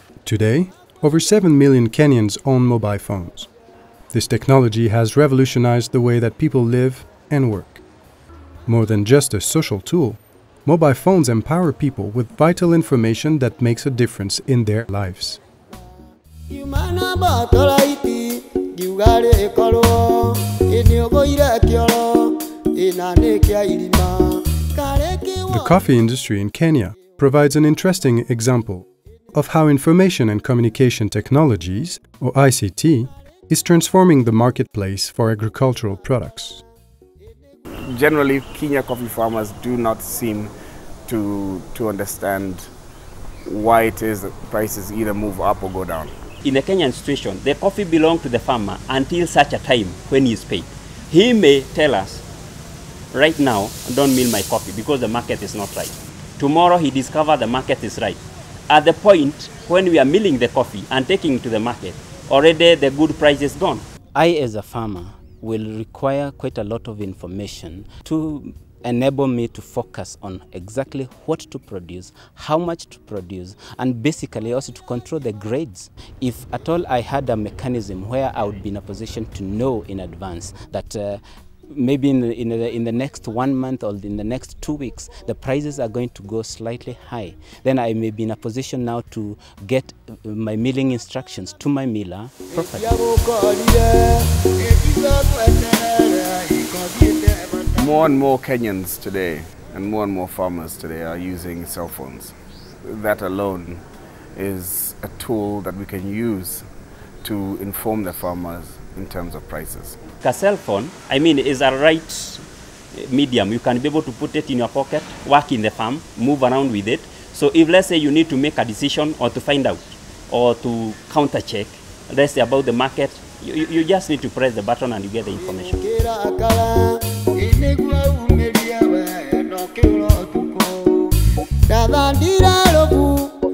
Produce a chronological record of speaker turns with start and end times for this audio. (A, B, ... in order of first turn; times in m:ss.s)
0:00.2-0:03.5 A
0:04.1-0:07.8 A
0:08.7-0:15.4 A
0:16.5-0:25.8 B
0:25.5-0:36.6 A
0:37.8-0:40.5 C
0:41.1-0:42.7 C
0:43.4-0:46.2 C
0:46.4-0:52.2 D
0:53.1-1:03.8 D
1:04.1-1:32.9 E
1:32.5-1:38.2 B
1:37.8-1:43.8 C
1:44.4-1:46.7 C
1:47.2-1:50.0 C
1:50.2-1:52.4 D
1:53.0-2:05.8 D
2:05.4-2:11.1 B
2:11.7-2:13.3 B